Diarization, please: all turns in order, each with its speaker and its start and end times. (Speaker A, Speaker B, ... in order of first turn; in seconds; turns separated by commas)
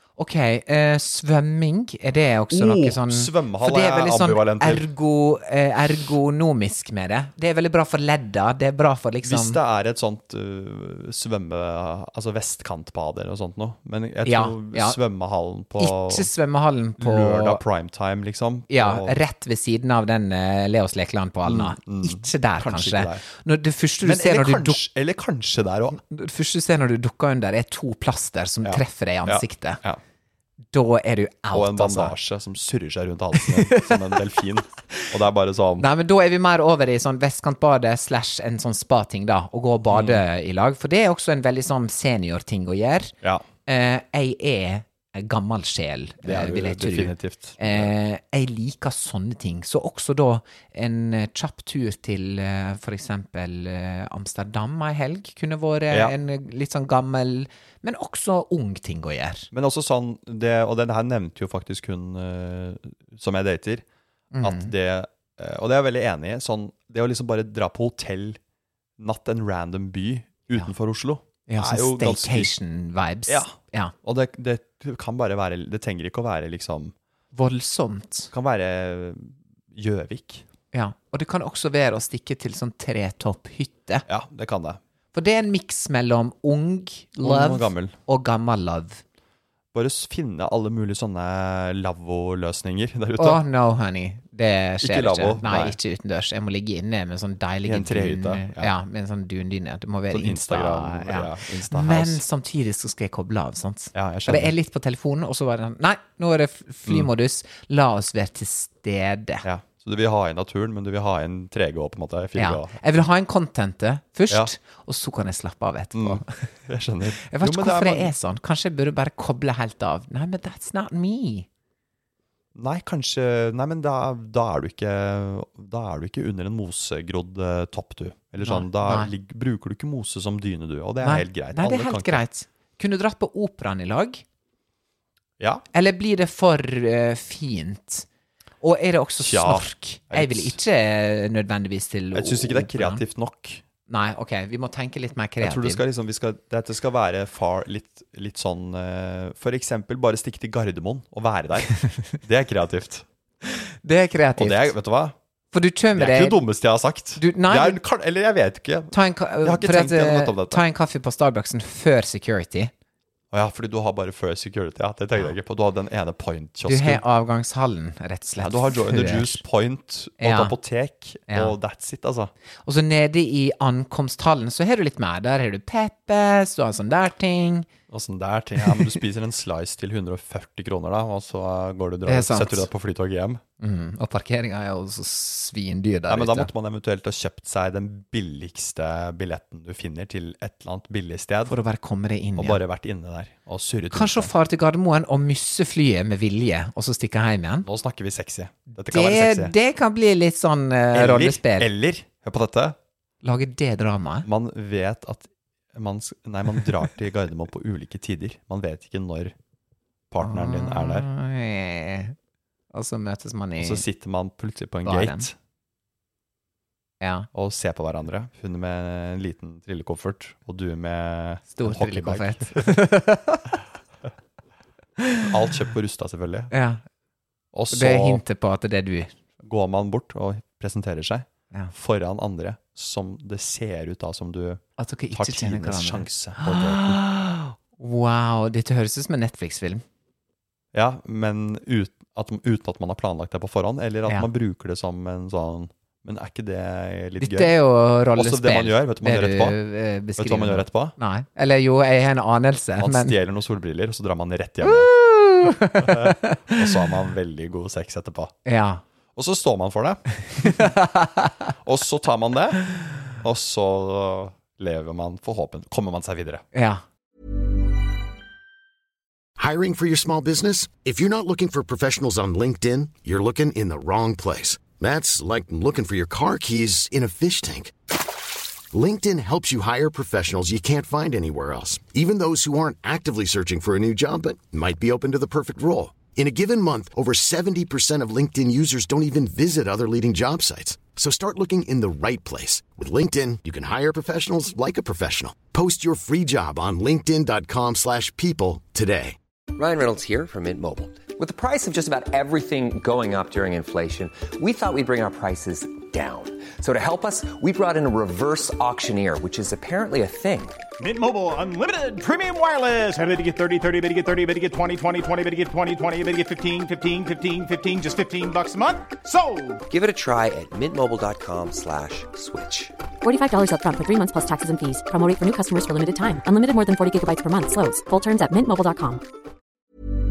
Speaker A: 0.2-9.6, Speaker B: 2.5-4.9, Speaker B: 9.2-16.3, Speaker A: 14.2-15.0, Speaker A: 15.8-17.6, Speaker B: 17.0-19.2, Speaker A: 18.7-24.8, Speaker B: 21.4-23.2, Speaker B: 24.0-26.0, Speaker A: 25.9-29.8, Speaker B: 28.6-30.0, Speaker A: 30.7-32.1, Speaker B: 31.5-35.9, Speaker A: 33.4-34.2, Speaker A: 35.8-43.1, Speaker B: 39.9-40.2, Speaker A: 43.7-59.5, Speaker B: 46.2-47.9, Speaker B: 59.5-63.8, Speaker A: 64.3-64.7, Speaker B: 64.4-68.4, Speaker B: 69.0-72.5, Speaker A: 71.5-73.9, Speaker B: 73.3-76.9, Speaker A: 77.3-78.3, Speaker B: 78.3-80.5, Speaker A: 80.7-84.0, Speaker B: 84.1-84.8, Speaker A: 85.1-89.0, Speaker B: 87.2-88.0, Speaker B: 89.7-93.4, Speaker A: 93.2-109.5, Speaker B: 94.8-95.8, Speaker B: 97.7-98.7, Speaker B: 100.1-102.2, Speaker B: 103.9-104.5, Speaker B: 109.4-112.8, Speaker A: 112.4-116.5, Speaker B: 115.9-118.1, Speaker A: 117.2-121.5, Speaker B: 122.5-132.2, Speaker A: 128.4-129.1, Speaker A: 131.0-134.2, Speaker B: 135.4-135.6, Speaker A: 135.7-138.1, Speaker A: 138.6-143.0, Speaker B: 139.2-140.6, Speaker B: 142.1-143.6, Speaker A: 143.9-145.8, Speaker B: 145.4-153.1, Speaker A: 153.4-154.8, Speaker B: 154.4-155.2, Speaker A: 155.5-156.4, Speaker B: 155.9-160.6, Speaker A: 157.2-157.8, Speaker A: 158.9-162.7, Speaker B: 163.3-167.0, Speaker A: 166.7-169.4, Speaker B: 168.4-172.3, Speaker A: 170.2-170.6, Speaker A: 171.3-171.6, Speaker A: 172.7-177.7, Speaker B: 177.9-183.4, Speaker A: 178.6-179.0, Speaker A: 182.1-182.7, Speaker A: 183.6-186.5, Speaker B: 186.1-191.6, Speaker A: 191.5-192.6, Speaker B: 192.4-194.3, Speaker A: 193.9-197.7, Speaker B: 197.7-199.5, Speaker A: 198.7-201.7, Speaker B: 200.9-202.8, Speaker A: 203.2-204.3, Speaker B: 204.2-209.3, Speaker B: 210.1-211.1, Speaker A: 210.2-212.2, Speaker A: 212.7-213.8, Speaker B: 213.6-215.3, Speaker A: 214.8-215.3, Speaker A: 217.0-217.3, Speaker B: 217.3-222.8, Speaker A: 221.5-223.5, Speaker B: 225.2-226.5, Speaker A: 226.5-226.8, Speaker B: 227.5-228.2, Speaker A: 227.7-229.1, Speaker B: 229.4-234.6, Speaker A: 234.8-239.8, Speaker B: 235.1-237.0, Speaker B: 240.7-247.6, Speaker A: 247.2-253.2, Speaker B: 248.2-249.6, Speaker B: 250.2-250.9, Speaker B: 252.8-254.9, Speaker A: 254.6-256.6, Speaker B: 255.4-258.3, Speaker A: 258.5-258.8, Speaker B: 259.1-260.8, Speaker A: 260.4-261.5, Speaker B: 261.6-266.4, Speaker A: 266.5-266.8, Speaker C: 269.4-277.8, Speaker C: 278.7-299.2, Speaker D: 299.5-310.6, Speaker E: 310.8-319.6, Speaker D: 319.7-322.7, Speaker F: 323.0-329.0